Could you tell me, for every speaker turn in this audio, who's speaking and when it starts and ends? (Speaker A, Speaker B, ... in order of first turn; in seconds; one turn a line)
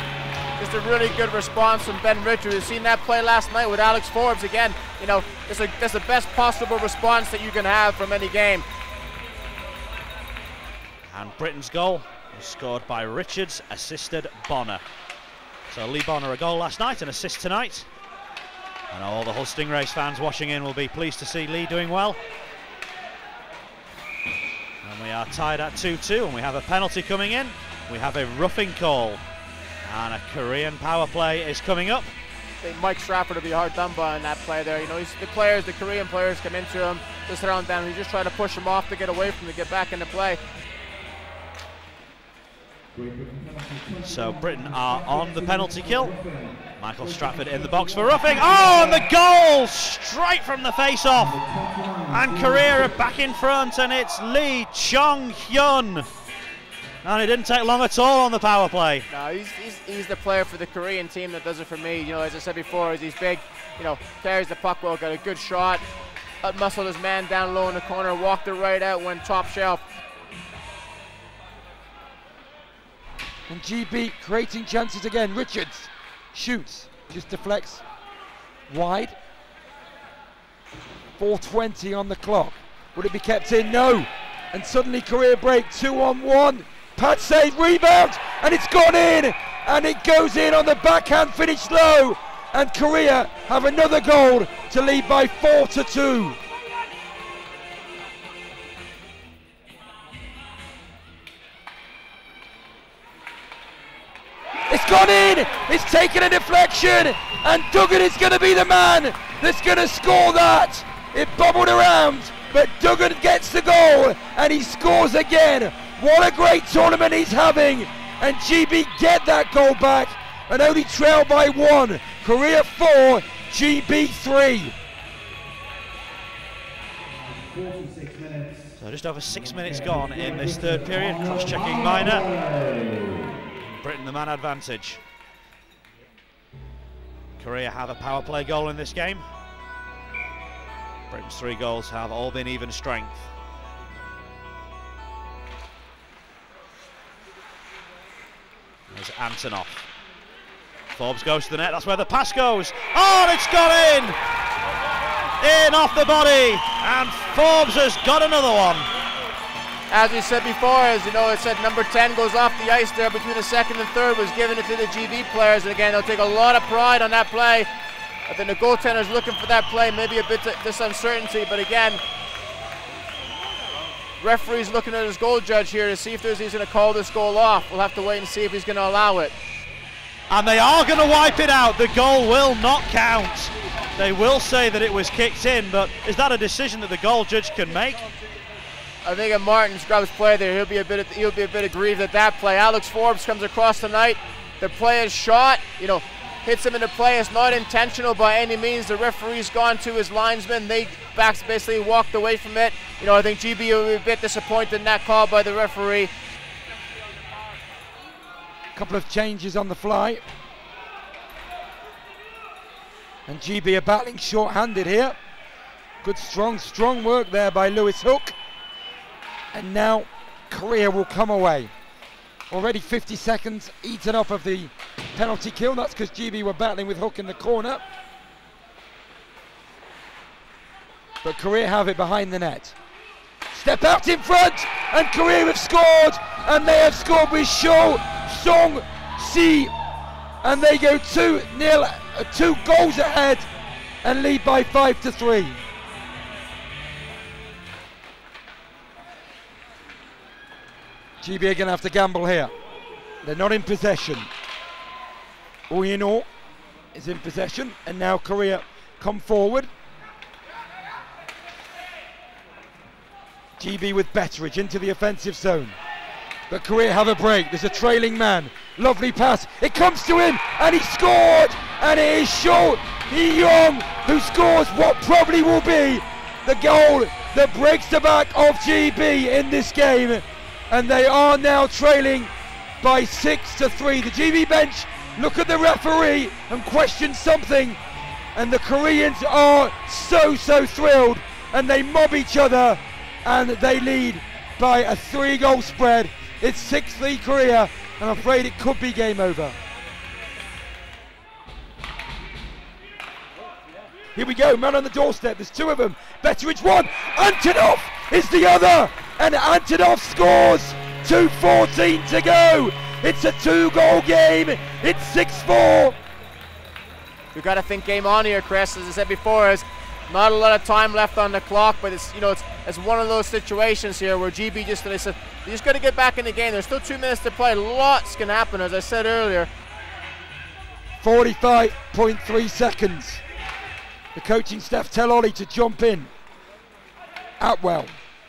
Speaker A: 0.6-8.7
Speaker B: 11.1-14.8
Speaker B: 15.7-17.9
Speaker B: 18.9-22.2
Speaker B: 24.8-29.2
Speaker B: 29.9-32.1
Speaker A: 32.6-40.4
Speaker A: 43.4-43.7
Speaker B: 44.0-46.2
Speaker B: 46.8-51.4
Speaker A: 51.5-52.1
Speaker B: 52.1-56.1
Speaker B: 57.0-59.1
Speaker A: 59.1-65.8
Speaker A: 66.4-69.8
Speaker C: 73.5-77.8
Speaker C: 78.7-79.2
Speaker C: 81.2-96.4
Speaker C: 104.7-124.7
Speaker A: 127.7-128.3
Speaker B: 128.8-132.3
Speaker B: 133.6-135.0
Speaker B: 137.4-139.2
Speaker B: 141.1-143.3
Speaker B: 148.9-149.9
Speaker B: 150.9-154.2
Speaker B: 155.4-158.9
Speaker A: 159.9-167.7
Speaker A: 168.3-172.0
Speaker A: 174.2-179.3
Speaker B: 180.3-188.0
Speaker A: 189.0-206.1
Speaker C: 208.8-210.2
Speaker C: 213.3-215.2
Speaker C: 216.0-218.3
Speaker C: 219.5-221.7
Speaker C: 222.5-227.8
Speaker C: 231.2-232.8
Speaker C: 233.5-239.7
Speaker C: 240.4-243.5
Speaker C: 244.0-245.6
Speaker C: 251.2-252.5
Speaker C: 253.2-254.3
Speaker C: 255.7-256.3
Speaker C: 256.9-259.7
Speaker C: 263.6-265.8
Speaker C: 266.5-287.8
Speaker C: 288.4-299.6
Speaker C: 304.1-316.0
Speaker A: 317.3-329.5
Speaker C: 331.0-333.2
Speaker C: 334.1-336.1
Speaker C: 337.4-338.0